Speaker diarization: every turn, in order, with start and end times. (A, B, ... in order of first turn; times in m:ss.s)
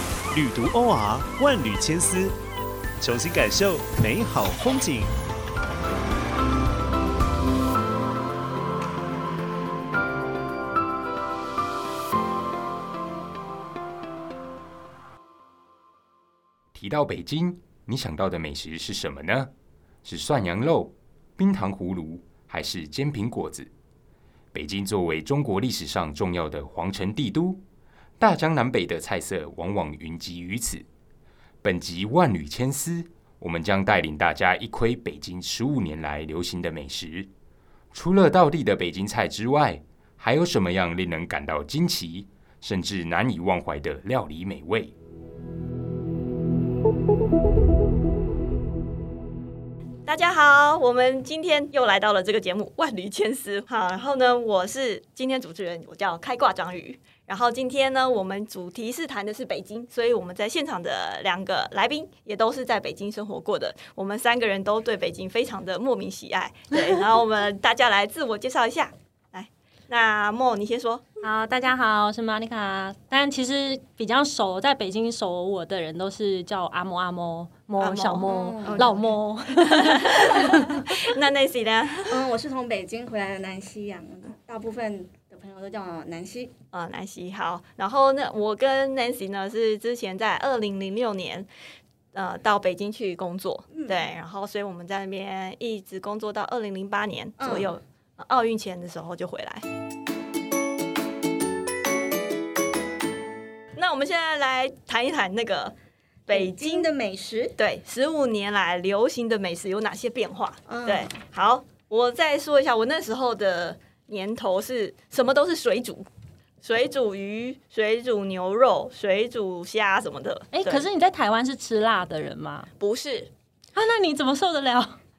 0:00.3-0:02.4 A
0:03.0-0:05.1 A
0:16.7-0:19.5 B
0:20.0-0:23.7 B
0:24.5-0:27.6 B
0:28.2-0:30.9 B
0:31.6-0:37.3 B
0:37.9-0:44.9 B
0:50.1-1:11.2 C
1:11.2-1:20.8 D
1:17.8-1:19.0 C
1:18.2-1:19.0 E
1:19.6-1:22.2 C
1:22.1-1:26.5 E
1:26.7-1:31.5 C
1:32.1-1:39.6 C
1:33.7-1:34.1 E
1:37.4-1:37.7 E
1:43.8-1:45.7 C
1:46.3-1:46.9 C
1:46.3-1:47.6 E
1:47.6-1:56.0 C
1:50.7-1:51.1 E
1:56.6-2:00.8 C
2:00.5-2:02.7 D
2:02.8-2:03.3 C
2:03.8-2:05.0 D